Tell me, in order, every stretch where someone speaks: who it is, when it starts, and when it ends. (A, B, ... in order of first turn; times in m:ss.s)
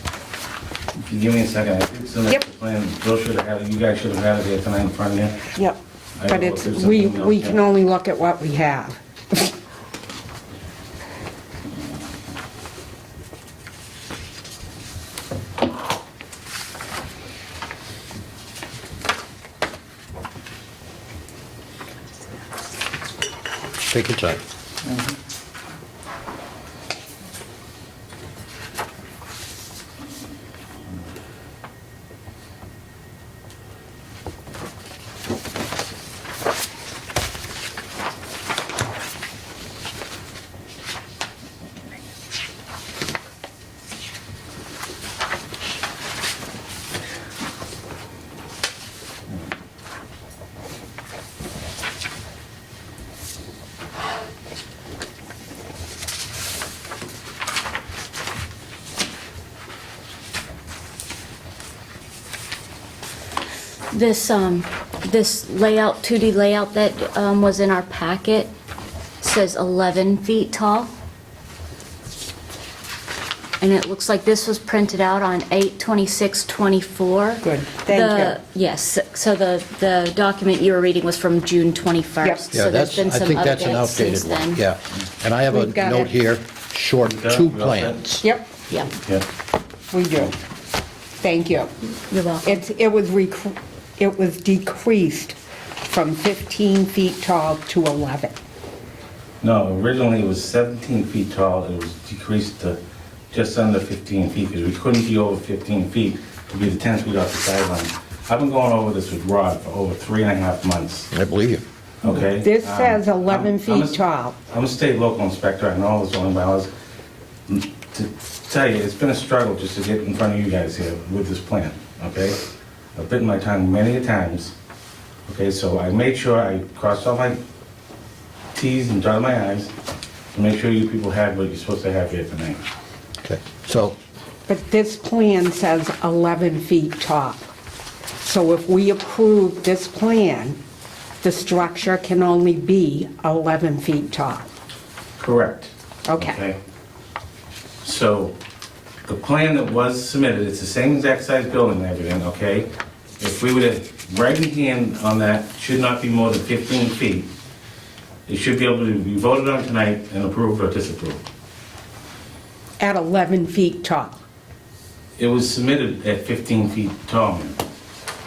0:01.0-0:05.6 A
0:05.6-0:09.5 B
0:06.2-0:07.6 A
0:23.9-0:24.4 C
0:24.9-0:25.1 A
1:03.9-1:08.5 D
1:09.2-1:10.9 D
1:13.6-1:24.6 D
1:17.4-1:18.4 B
1:22.5-1:28.2 C
1:25.5-1:26.1 B
1:27.0-1:29.2 A
1:28.2-1:28.5 B
1:29.9-1:30.4 B
1:31.2-1:31.7 B
1:32.1-1:32.6 D
1:32.4-1:38.4 B
1:39.4-1:42.8 A
1:43.3-1:51.1 A
1:51.1-1:51.6 C
1:52.0-1:56.7 A
1:52.4-1:54.3 B
1:57.5-2:02.4 A
2:03.0-2:04.5 A
2:05.3-2:07.4 A
2:08.6-2:09.7 A
2:10.3-2:12.6 A
2:13.2-2:14.0 C
2:14.5-2:17.4 B
2:18.2-2:20.6 B
2:21.2-2:24.5 B
2:25.2-2:26.6 A
2:26.1-2:26.4 B
2:27.8-2:28.4 A
2:29.0-2:37.3 A
2:38.3-2:41.2 A
2:42.8-2:44.2 B
2:45.2-2:47.6 A